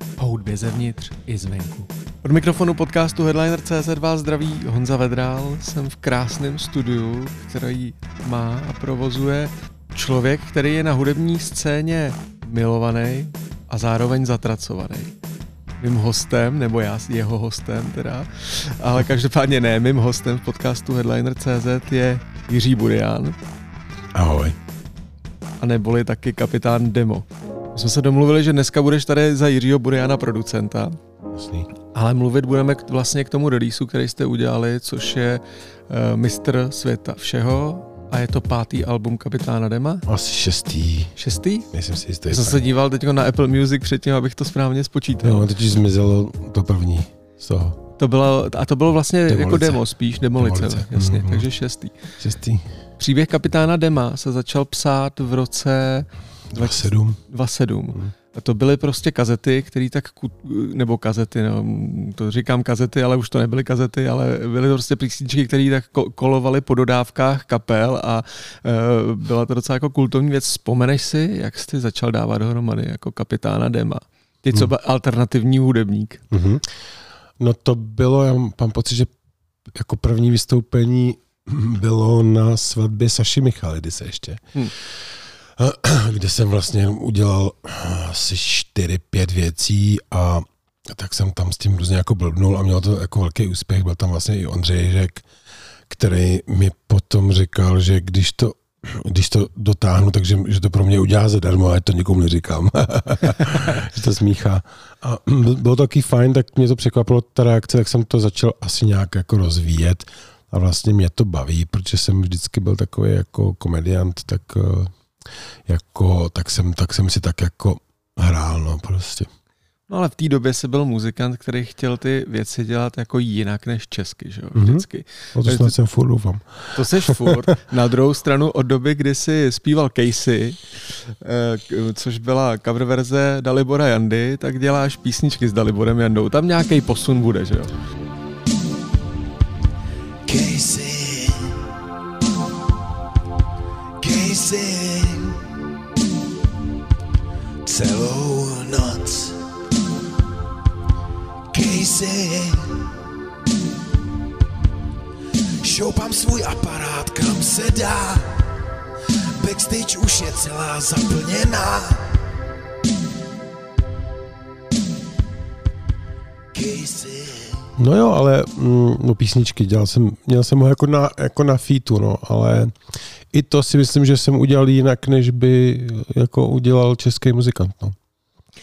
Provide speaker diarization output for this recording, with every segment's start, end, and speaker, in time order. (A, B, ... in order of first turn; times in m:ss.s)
0:00.2-0:15.1 A
0:15.8-0:23.4 A
0:24.1-0:24.6 B
0:25.6-0:31.0 A
0:31.3-0:31.7 B
0:31.9-0:40.0 A
0:40.1-0:41.1 B
0:41.2-0:41.7 A
0:41.7-0:42.6 B
0:42.3-0:45.5 A
0:45.2-0:47.8 B
0:48.0-0:52.0 A
0:49.3-0:49.8 B
0:50.3-0:51.5 B
0:52.2-0:52.6 B
0:53.0-1:16.2 A
0:56.5-0:57.2 B
1:16.3-1:16.7 B
1:17.4-1:19.1 B
1:19.7-1:35.2 B
1:35.9-1:54.9 B
1:55.6-1:59.3 B
1:59.9-2:05.7 A
2:04.5-2:07.4 B
2:06.7-2:17.7 A
2:20.2-2:21.7 C
2:24.0-2:25.4 C
2:27.6-2:29.4 C
2:31.5-2:32.9 C
2:35.6-2:38.4 C
2:39.4-2:42.2 C
2:46.5-2:47.7 C
2:47.8-2:52.8 B
2:53.3-2:58.0 B